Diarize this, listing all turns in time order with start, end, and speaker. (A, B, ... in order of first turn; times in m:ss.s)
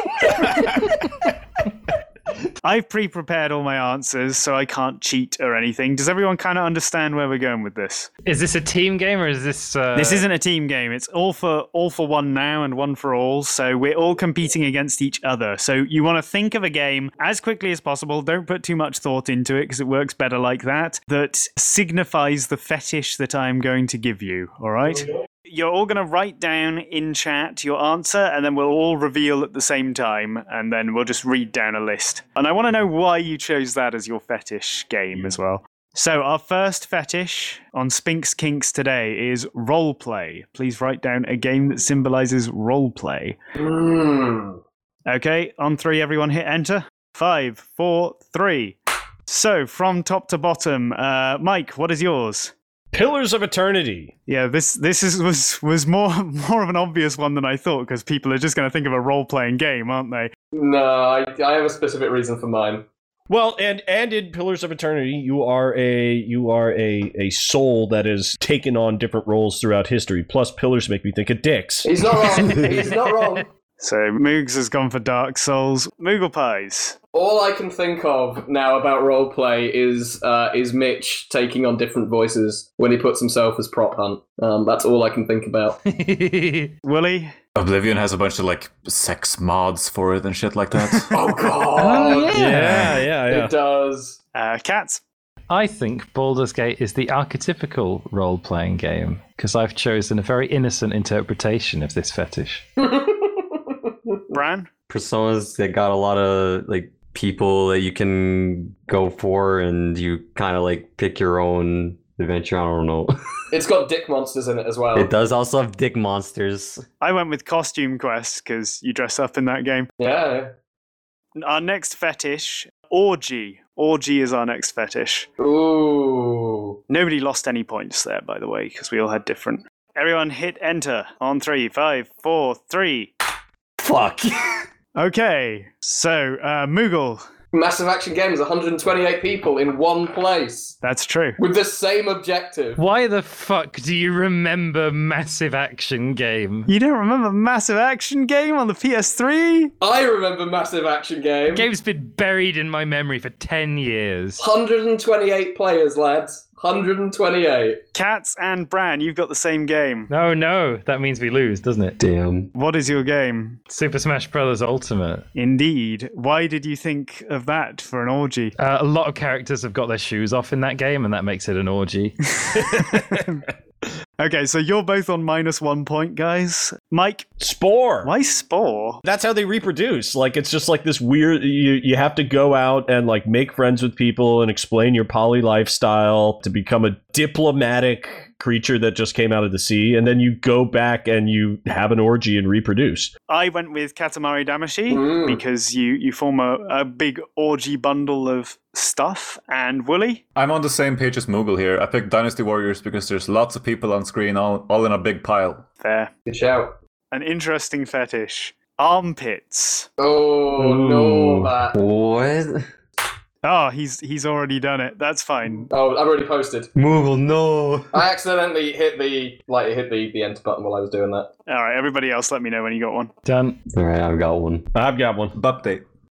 0:02.6-0:08.1 A
0:08.2-0:10.2 B
0:10.0-0:43.4 A
0:43.6-0:44.6 C
0:45.1-0:52.5 A
0:52.9-0:54.1 D
0:54.3-1:00.3 A
1:00.5-1:02.8 C
1:03.3-1:12.7 D
1:11.8-1:13.5 C
1:12.4-1:12.8 B
1:13.8-1:17.0 A
1:17.1-1:25.8 C
1:25.8-1:26.7 B
1:26.8-1:27.3 A
1:27.6-1:31.2 E
1:31.1-1:32.8 C
1:31.8-1:33.0 B
1:32.3-1:33.5 D
1:33.3-1:34.2 C
1:34.3-1:35.0 A
1:35.5-1:42.6 B
1:42.8-1:44.3 C
1:44.3-1:44.7 A
1:44.9-1:53.1 F
1:53.5-1:55.1 C
1:54.9-1:56.8 F
1:57.0-1:59.9 A
2:00.0-2:00.5 C
2:01.4-2:05.3 A
2:05.4-2:06.8 C
2:06.9-2:13.1 A
2:13.8-2:14.6 F
2:14.9-2:17.2 A
2:17.5-2:20.8 C
2:20.8-2:21.4 A
2:21.4-2:22.8 C
2:22.8-2:26.7 B
2:26.7-2:29.7 A
2:29.8-2:31.7 C
2:31.5-2:34.4 B
2:34.4-2:37.8 C
2:37.9-2:40.1 A
2:40.1-2:42.0 B
2:42.0-2:42.5 F
2:42.5-2:43.6 A
2:43.7-2:45.2 B
2:45.3-2:48.5 A
2:48.6-2:52.2 B
2:52.5-2:53.4 A
2:52.6-2:53.2 D
2:54.2-2:57.2 A
2:57.4-2:58.1 D
2:58.0-2:59.0 A
2:59.0-3:13.1 D
3:13.3-3:20.2 A
3:14.9-3:15.4 C
3:20.4-3:25.6 E
3:25.8-3:26.1 A
3:26.3-3:26.7 C
3:27.1-3:29.9 A
3:30.0-3:31.8 C
3:30.6-3:32.7 F
3:33.4-3:35.7 A
3:35.7-3:36.7 C
3:36.7-3:38.0 F
3:37.9-3:41.3 C
3:41.5-3:43.1 A
3:43.2-3:43.6 B
3:43.7-3:44.7 F
3:44.7-3:45.3 D
3:45.3-3:45.8 E